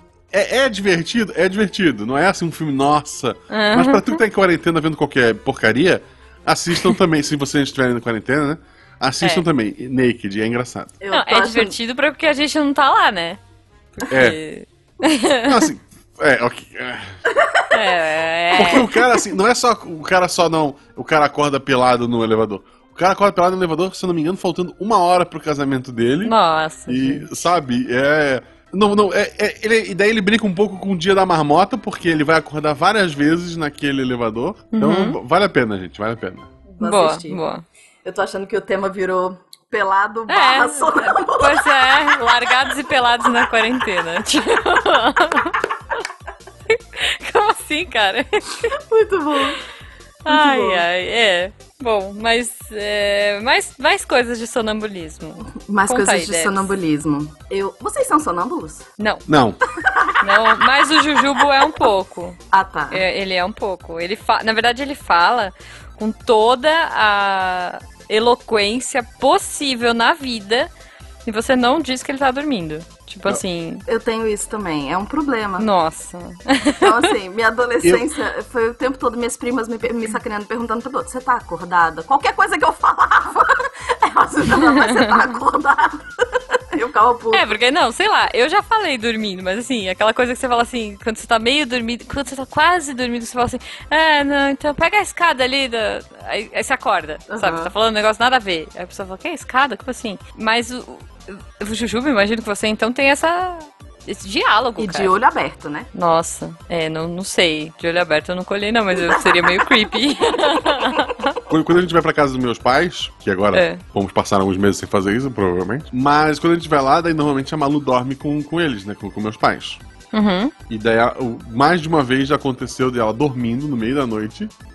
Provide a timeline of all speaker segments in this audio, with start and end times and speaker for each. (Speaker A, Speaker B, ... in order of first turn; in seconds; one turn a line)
Speaker A: 0.3-10.9
Speaker B: 3.5-4.2
Speaker C: 11.0-11.8
Speaker B: 11.1-13.4
Speaker B: 13.9-15.7
Speaker A: 14.1-14.4
Speaker A: 15.4-17.2
Speaker C: 17.4-17.6
Speaker B: 17.7-19.0
Speaker A: 18.5-26.3
Speaker B: 26.2-27.3
Speaker A: 26.9-36.5
Speaker B: 34.7-35.2
Speaker C: 36.7-37.4
Speaker B: 36.8-37.6
Speaker C: 38.0-42.0
Speaker B: 40.3-45.6
Speaker B: 46.7-48.7
Speaker C: 48.7-49.6
Speaker B: 50.2-56.7
Speaker C: 50.3-50.8
Speaker C: 55.6-58.9
Speaker B: 59.0-59.2
Speaker A: 59.3-59.6
Speaker C: 59.7-60.2
Speaker B: 60.2-62.4
Speaker C: 62.5-63.0
Speaker B: 62.9-70.7
Speaker B: 71.2-73.8
Speaker C: 73.9-75.7
Speaker B: 75.6-77.1
Speaker C: 76.8-87.5
Speaker B: 87.3-105.1
Speaker C: 97.3-97.7
Speaker C: 104.8-105.9
Speaker B: 105.9-111.4
Speaker A: 111.5-119.8
Speaker B: 113.5-113.8
Speaker B: 120.1-120.5
Speaker A: 120.7-124.5